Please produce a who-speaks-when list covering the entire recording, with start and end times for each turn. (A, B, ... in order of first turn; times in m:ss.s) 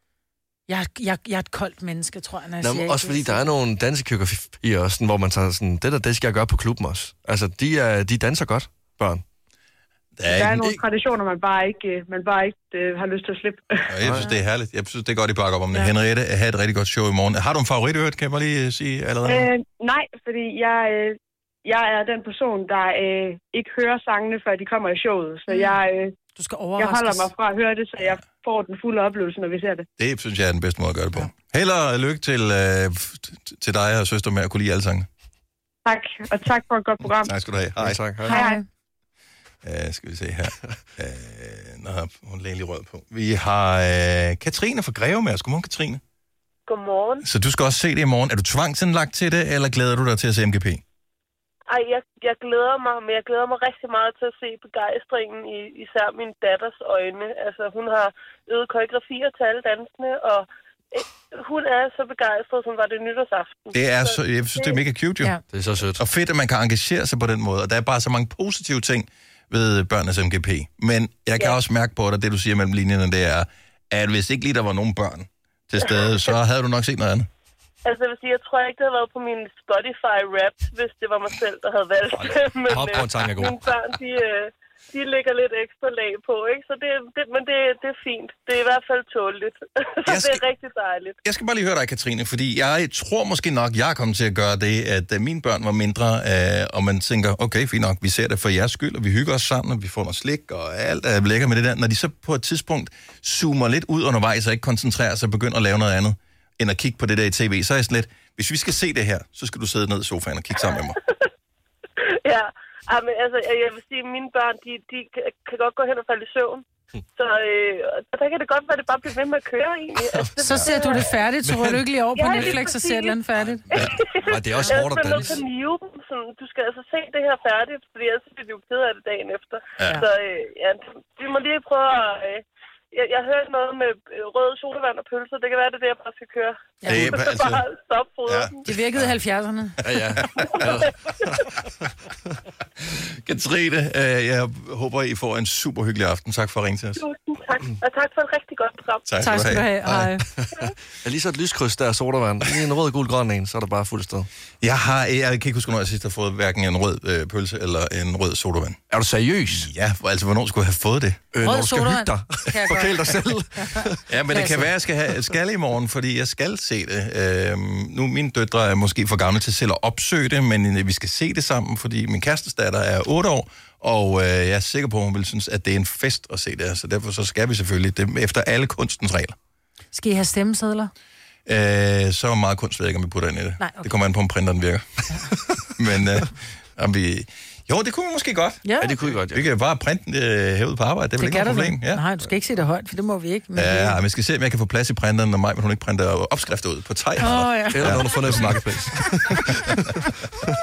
0:00.7-0:03.5 A
0:02.6-0:09.2 B
0:10.2-0:10.6 C
0:10.2-0:13.9 D
0:13.9-0:19.5 C
0:19.2-0:26.1 D
0:25.5-0:25.8 A
0:26.4-0:27.3 A
0:26.8-0:29.9 D
0:30.0-0:35.1 C
0:35.8-0:37.3 D
0:37.2-0:38.0 C
0:37.8-0:38.4 B
0:38.3-0:38.6 A
0:38.3-0:38.6 D
0:39.6-0:46.0 C
0:46.7-0:47.2 E
0:47.2-0:50.8 C
0:51.7-1:04.8 E
1:03.7-1:05.3 C
1:05.5-1:06.0 B
1:06.0-1:17.3 C
1:17.8-1:31.2 E
1:22.2-1:23.6 B
1:30.0-1:30.4 C
1:31.2-1:51.0 C
1:52.0-1:56.6 E
1:57.2-2:01.1 E
2:00.4-2:03.6 A
2:01.4-2:02.6 B
2:02.2-2:03.2 E
2:03.4-2:05.4 B
2:03.7-2:18.6 E
2:16.8-2:17.1 A
2:16.9-2:17.6 C
2:18.2-2:19.1 C
2:18.6-2:19.8 A
2:19.8-2:21.5 B
2:22.8-2:27.0 C
2:27.0-2:29.1 E
2:29.1-2:30.1 C
2:29.2-2:30.2 A
2:30.4-2:34.3 B
2:34.6-2:38.8 C
2:38.9-2:39.7 B
2:39.5-2:41.2 C
2:41.3-2:44.1 B
2:41.4-2:44.6 A
2:44.1-2:59.3 C
2:59.9-3:00.9 A
3:01.4-3:05.0 C
3:03.6-3:03.9 A
3:05.6-3:12.0 C
3:08.6-3:08.9 A
3:08.8-3:09.5 B
3:11.2-3:14.0 A
3:13.5-3:19.1 C
3:17.2-3:18.2 A
3:17.7-3:19.9 B